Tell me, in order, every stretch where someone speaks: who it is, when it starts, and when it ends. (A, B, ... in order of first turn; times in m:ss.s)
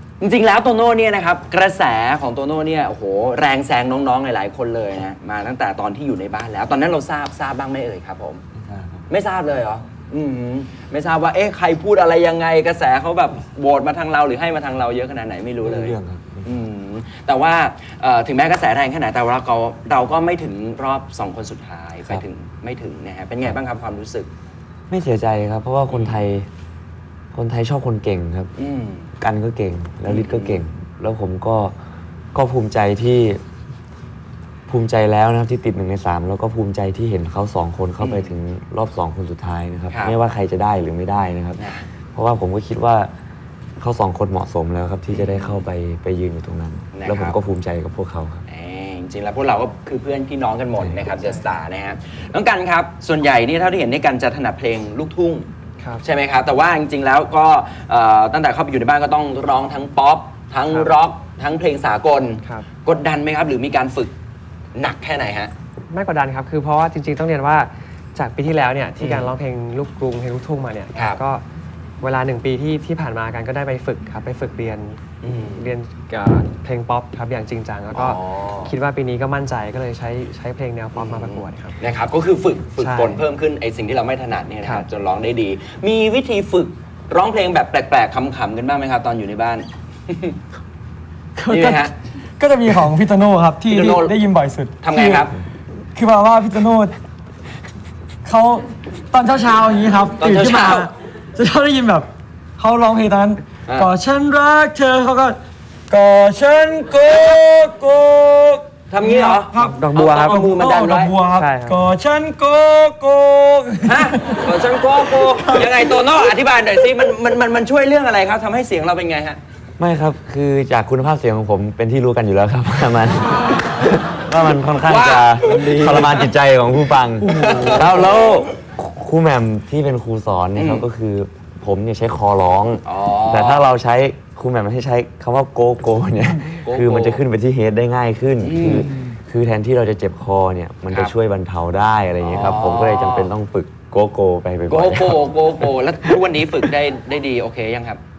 0:00.2-0:08.4 A
0:08.6-0:09.1 B
0:09.1-0:24.3 A
0:15.6-0:16.5 B
0:24.9-0:26.5 B
0:25.9-0:26.2 A
0:27.3-0:28.5 B
0:28.6-0:29.1 A
0:29.2-0:31.8 B
0:30.1-0:30.6 A
0:32.3-0:33.4 B
0:34.7-0:41.6 B
0:38.0-0:38.3 A
0:41.6-0:41.8 A
0:42.1-0:43.1 B
0:43.8-0:48.4 B
0:45.1-0:45.6 A
0:46.9-0:47.4 A
0:48.5-0:55.5 A
0:51.2-0:51.4 C
0:56.0-1:04.1 A
1:04.8-1:05.5 A
1:05.9-1:11.4 C
1:09.0-1:09.3 A
1:10.9-1:11.2 A
1:12.0-1:15.0 C
1:15.2-1:15.7 A
1:15.6-1:21.8 C
1:17.9-1:18.7 A
1:21.0-1:30.4 A
1:22.8-1:23.2 C
1:31.4-1:35.3 D
1:31.5-1:31.9 A
1:33.7-1:34.2 A
1:34.8-1:35.3 A
1:35.9-1:36.9 D
1:38.2-1:45.4 D
1:40.2-1:40.9 A
1:43.7-1:43.9 A
1:45.9-1:54.4 D
1:48.9-1:51.1 A
1:49.5-1:50.4 C
1:51.3-1:51.8 C
1:53.8-1:59.4 A
1:55.0-1:55.8 D
1:59.8-2:25.3 B
2:04.8-2:06.3 A
2:07.2-2:08.4 A
2:10.6-2:10.8 A
2:12.8-2:13.7 A
2:16.6-2:17.2 A
2:18.4-2:18.9 A
2:18.8-2:19.1 D
2:20.9-2:21.1 A
2:22.2-2:23.3 A
2:24.7-2:28.0 A